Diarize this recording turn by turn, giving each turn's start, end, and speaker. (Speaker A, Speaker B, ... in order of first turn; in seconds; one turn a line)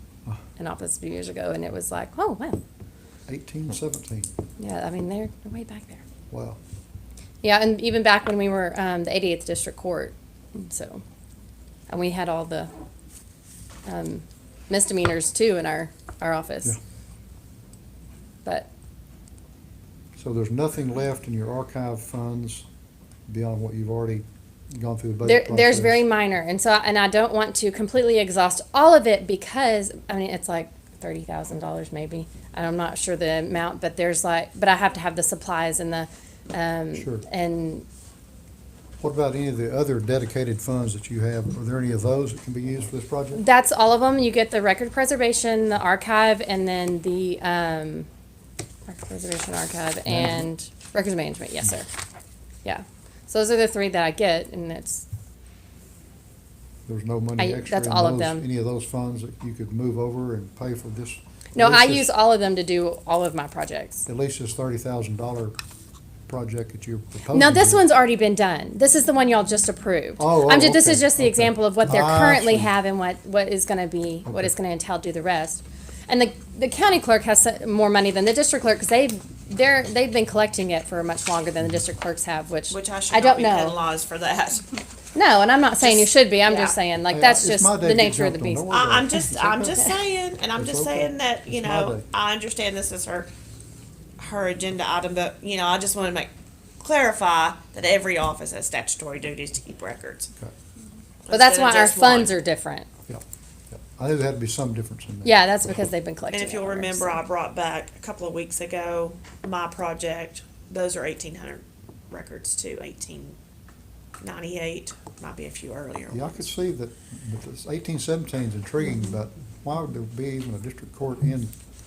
Speaker A: 0.6-2.6
Speaker B: 3.3-4.3
Speaker A: 4.6-6.0
Speaker B: 6.3-6.6
Speaker A: 7.4-11.0
Speaker A: 11.9-12.7
Speaker A: 13.9-16.8
Speaker B: 20.2-22.7
Speaker B: 23.3-24.2
Speaker B: 24.8-26.1
Speaker A: 25.2-37.9
Speaker B: 36.9-37.3
Speaker B: 39.0-43.4
Speaker A: 43.4-48.1
Speaker A: 48.9-51.9
Speaker B: 50.1-50.5
Speaker A: 52.6-55.0
Speaker B: 56.9-62.1
Speaker A: 57.4-58.5
Speaker A: 61.5-64.0
Speaker B: 64.1-65.6
Speaker B: 66.3-67.8
Speaker A: 67.3-83.8
Speaker B: 70.2-72.7
Speaker B: 74.2-74.5
Speaker C: 82.7-84.7
Speaker A: 85.2-88.7
Speaker C: 85.8-86.7
Speaker B: 87.1-90.0
Speaker C: 88.7-93.3
Speaker B: 90.5-92.1
Speaker C: 94.2-100.3
Speaker C: 101.3-102.3
Speaker A: 101.3-102.9
Speaker B: 103.1-105.4
Speaker A: 105.2-107.2
Speaker C: 106.3-113.4
Speaker C: 114.2-116.5
Speaker B: 116.1-121.5